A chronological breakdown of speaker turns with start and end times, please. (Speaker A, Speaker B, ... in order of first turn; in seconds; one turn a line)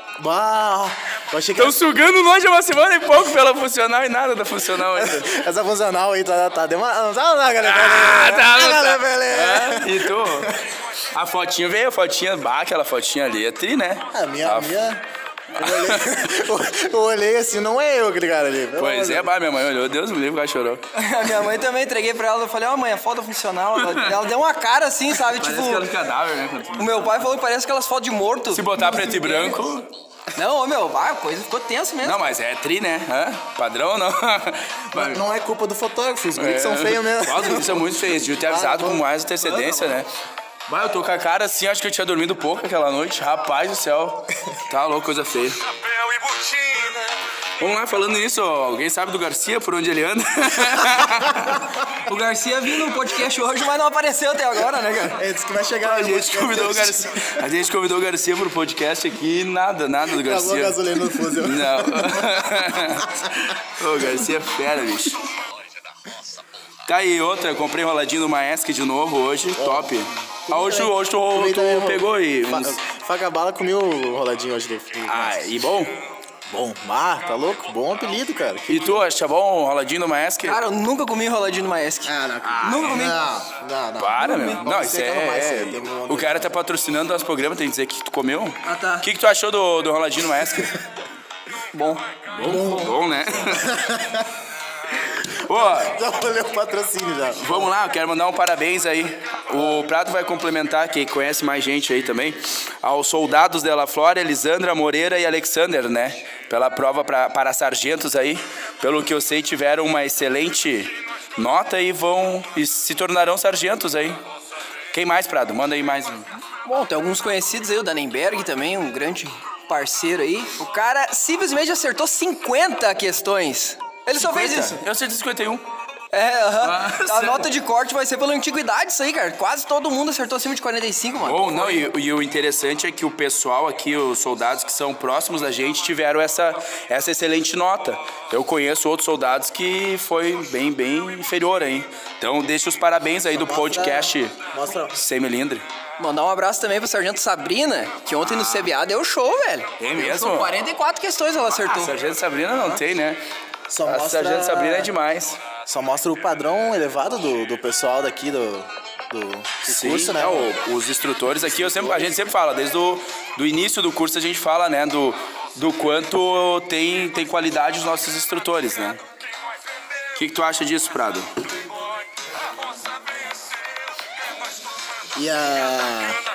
Speaker A: 0.2-1.8
Speaker B: 1.6-5.2
Speaker A: 4.9-10.5
Speaker B: 7.6-10.5
Speaker B: 11.1-14.8
Speaker A: 14.1-15.0
Speaker B: 15.5-16.3
Speaker A: 15.6-19.3
Speaker B: 18.8-20.8
Speaker C: 20.9-25.9
Speaker B: 23.8-24.1
Speaker B: 25.1-27.3
Speaker C: 26.8-29.6
Speaker B: 28.5-29.9
Speaker C: 30.3-32.3
Speaker B: 32.0-35.2
Speaker A: 34.9-39.0
Speaker B: 36.4-40.1
Speaker B: 40.7-45.6
Speaker B: 46.1-47.0
Speaker B: 47.6-51.7
Speaker C: 52.0-55.2
Speaker A: 55.1-57.3
Speaker B: 55.8-65.2
Speaker A: 60.1-63.1
Speaker B: 66.8-72.8
Speaker A: 69.5-75.5
Speaker B: 75.1-75.9
Speaker A: 76.5-79.0
Speaker B: 78.7-80.6
Speaker C: 80.4-83.2
Speaker A: 82.0-86.5
Speaker B: 82.4-83.1
Speaker B: 84.0-90.8
Speaker C: 84.2-84.6
Speaker C: 88.6-89.1
Speaker C: 91.7-92.8
Speaker B: 92.3-93.7
Speaker A: 92.4-93.0
Speaker A: 93.5-94.3
Speaker B: 95.2-96.0
Speaker A: 95.7-97.7
Speaker B: 97.4-114.2
Speaker B: 114.9-116.3
Speaker C: 116.6-124.8
Speaker B: 124.2-125.6
Speaker C: 126.1-131.9
Speaker B: 126.6-127.5
Speaker B: 131.2-144.4
Speaker A: 143.3-145.0
Speaker B: 144.9-145.6
Speaker C: 146.0-151.9
Speaker B: 148.2-148.7
Speaker B: 149.8-150.6
Speaker B: 151.5-153.2
Speaker A: 153.7-154.9
Speaker B: 153.8-155.4
Speaker A: 155.7-160.5
Speaker B: 159.6-169.0
Speaker A: 161.3-162.1
Speaker B: 170.1-171.3
Speaker A: 175.1-176.2